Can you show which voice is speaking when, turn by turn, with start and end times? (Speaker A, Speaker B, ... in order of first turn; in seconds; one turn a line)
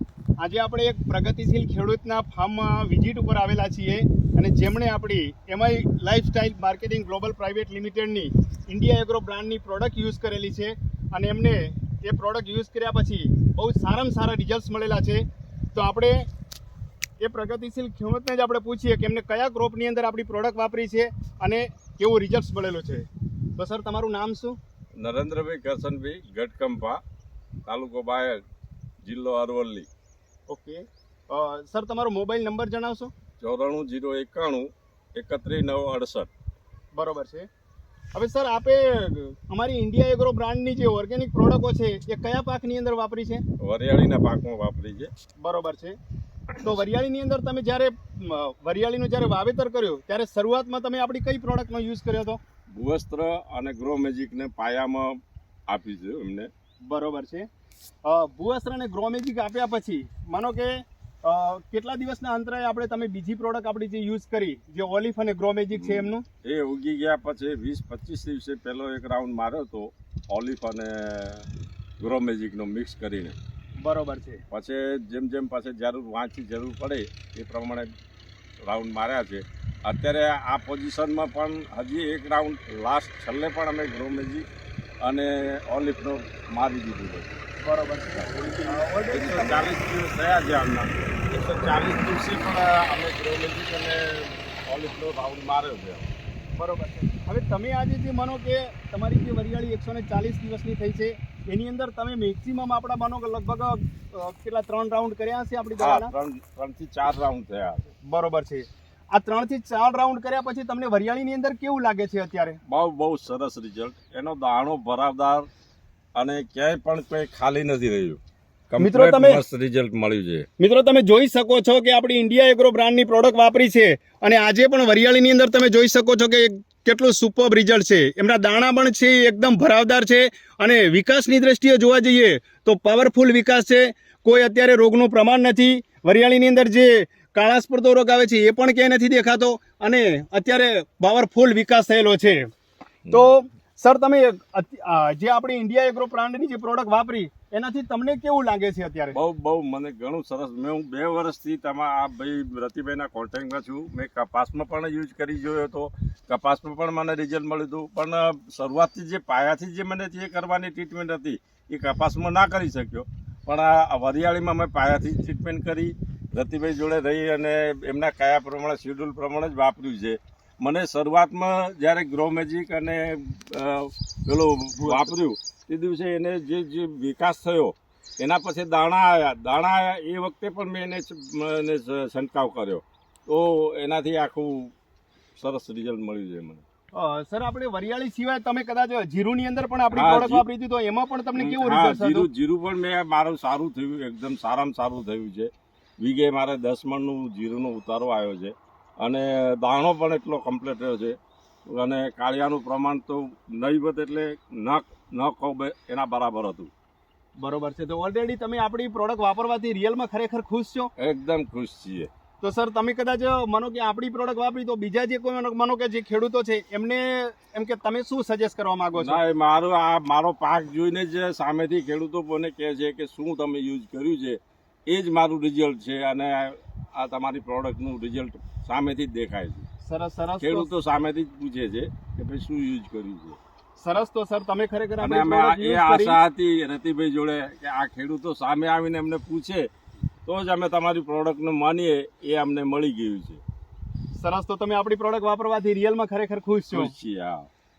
Speaker A: 0.4-16.2
Speaker A: 17.2-24.6
Speaker B: 25.0-27.0
Speaker B: 27.7-28.4
Speaker B: 29.1-29.9
Speaker A: 30.5-33.1
Speaker B: 33.4-36.3
Speaker A: 37.0-37.5
Speaker A: 38.1-43.4
Speaker B: 43.6-45.1
Speaker A: 45.4-46.0
Speaker A: 46.6-52.4
Speaker B: 52.7-55.2
Speaker B: 55.7-56.5
Speaker A: 56.9-57.5
Speaker A: 58.0-60.7
Speaker A: 61.2-66.2
Speaker B: 65.7-71.5
Speaker B: 72.0-73.4
Speaker A: 73.8-74.4
Speaker B: 74.5-77.9
Speaker B: 78.6-84.5
Speaker B: 85.0-87.4
Speaker A: 87.6-89.7
Speaker B: 88.1-96.1
Speaker A: 96.6-106.1
Speaker B: 105.8-107.9
Speaker A: 108.1-112.6
Speaker B: 112.7-115.5
Speaker B: 116.2-118.2
Speaker B: 118.7-120.5
Speaker A: 118.8-119.4
Speaker A: 120.6-142.5
Speaker A: 143.1-149.2
Speaker B: 149.1-184.7
Speaker A: 174.8-175.1
Speaker B: 185.4-186.6
Speaker A: 186.9-192.3
Speaker B: 189.9-190.4
Speaker B: 191.4-195.5
Speaker B: 196.0-201.2
Speaker B: 201.7-206.7
Speaker A: 207.4-210.9
Speaker B: 211.0-212.1
Speaker A: 212.4-219.2
Speaker B: 219.0-229.7
Speaker A: 229.8-230.7
Speaker B: 230.4-233.4
Speaker A: 233.8-236.2
Speaker B: 235.0-239.7
Speaker B: 240.3-243.4
Speaker A: 244.2-246.9
Speaker B: 246.7-247.5